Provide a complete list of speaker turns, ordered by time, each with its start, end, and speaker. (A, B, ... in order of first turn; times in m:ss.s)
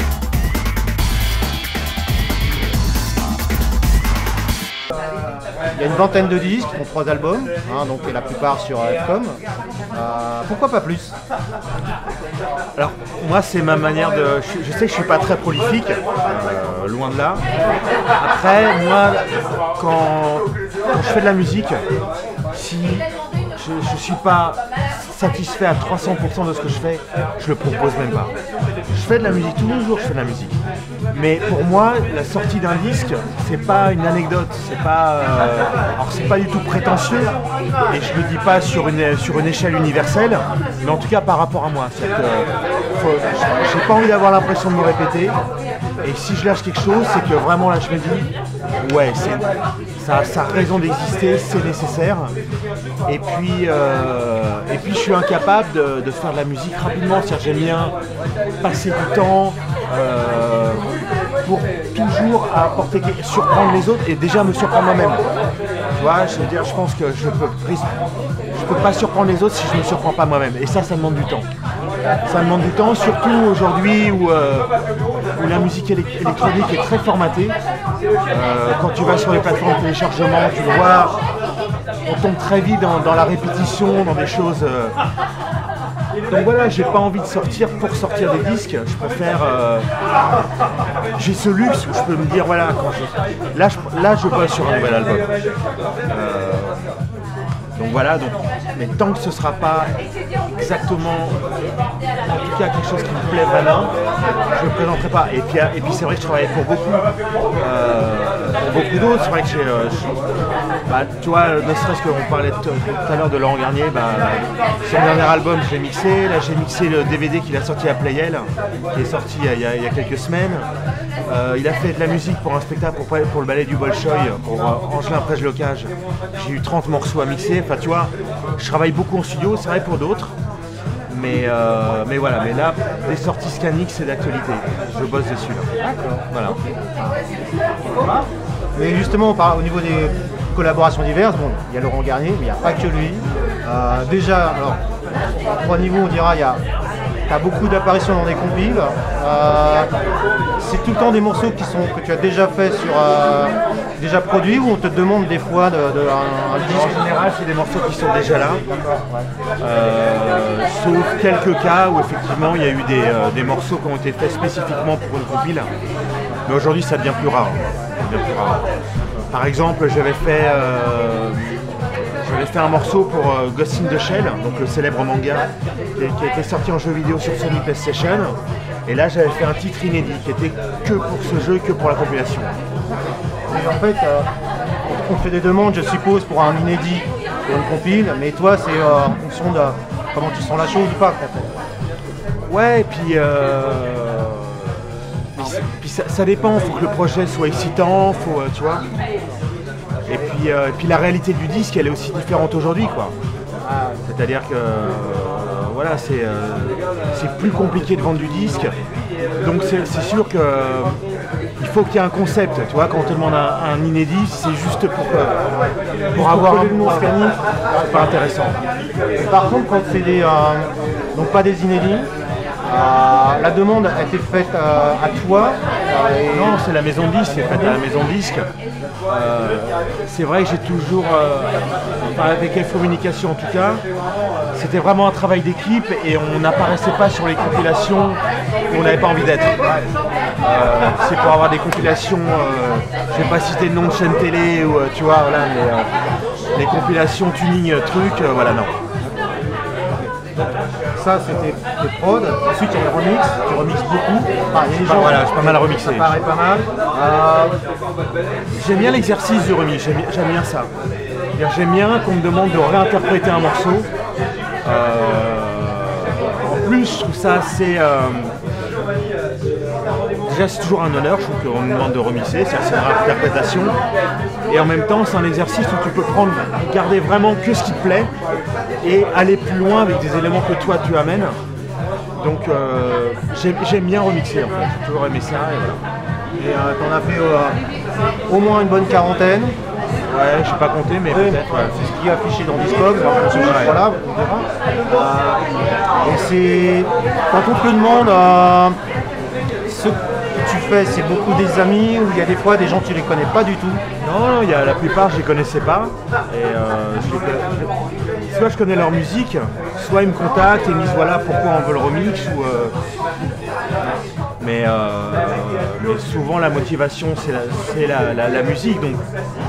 0:05.7-0:11.2 A
0:12.8-0:17.4 B
0:18.2-0:21.8 B
0:22.5-0:28.3 B
0:28.9-0:30.6 B
0:31.1-0:37.3 B
0:37.9-0:45.4 B
0:46.0-0:48.3 B
0:48.8-0:49.5 B
0:50.0-0:52.3 B
0:53.1-0:58.0 B
0:58.6-1:00.8 B
1:01.4-1:05.2 B
1:06.0-1:07.9 B
1:08.5-1:11.5 B
1:12.2-1:14.7 B
1:15.4-1:17.6 B
1:18.3-1:21.2 B
1:22.0-1:25.0 B
1:26.3-1:29.9 B
1:31.2-1:35.3 B
1:36.1-1:36.8 B
1:37.8-1:39.9 B
1:40.6-1:41.4 B
1:42.2-1:43.9 B
1:44.6-1:47.0 B
1:47.6-1:50.1 B
1:50.9-2:00.7 B
2:01.3-2:10.4 B
2:11.1-2:15.7 B
2:15.8-2:17.2 A
2:16.3-2:16.6 B
2:17.8-2:24.8 A
2:25.3-2:26.6 A
2:27.3-2:29.9 A
2:30.6-2:37.1 A
2:36.6-2:38.6 B
2:38.7-2:39.3 A
2:39.6-2:45.7 B
2:46.5-2:48.6 B
2:49.3-3:02.5 B
3:03.5-3:04.3 A
3:04.9-3:11.5 A
3:12.5-3:18.8 B
3:20.1-3:23.1 B
3:23.6-3:24.0 A
3:24.0-3:28.7 B
3:29.4-3:31.0 B
3:31.6-3:35.5 B
3:36.1-3:38.2 A
3:36.1-3:37.1 B
3:37.8-3:38.6 B
3:39.2-3:42.1 A
3:42.6-3:46.6 A
3:46.3-3:48.5 B
3:47.3-3:47.8 A
3:49.1-3:53.8 B
3:54.6-3:59.6 B
4:00.4-4:05.9 B
4:06.6-4:08.7 B
4:10.0-4:17.6 A
4:14.8-4:16.2 B
4:18.5-4:20.7 B
4:21.4-4:23.9 B
4:24.6-4:28.4 B
4:30.2-4:33.8 B
4:34.5-4:38.1 B
4:38.8-4:41.4 B
4:42.2-4:45.8 B
4:46.4-4:47.6 A
4:48.3-4:49.6 A
4:50.0-4:51.7 B
4:51.1-4:55.4 A
4:53.4-4:53.8 B
4:56.0-4:58.8 A
4:59.7-5:03.8 A
5:04.0-5:07.7 B
5:08.3-5:12.7 B
5:14.4-5:19.0 B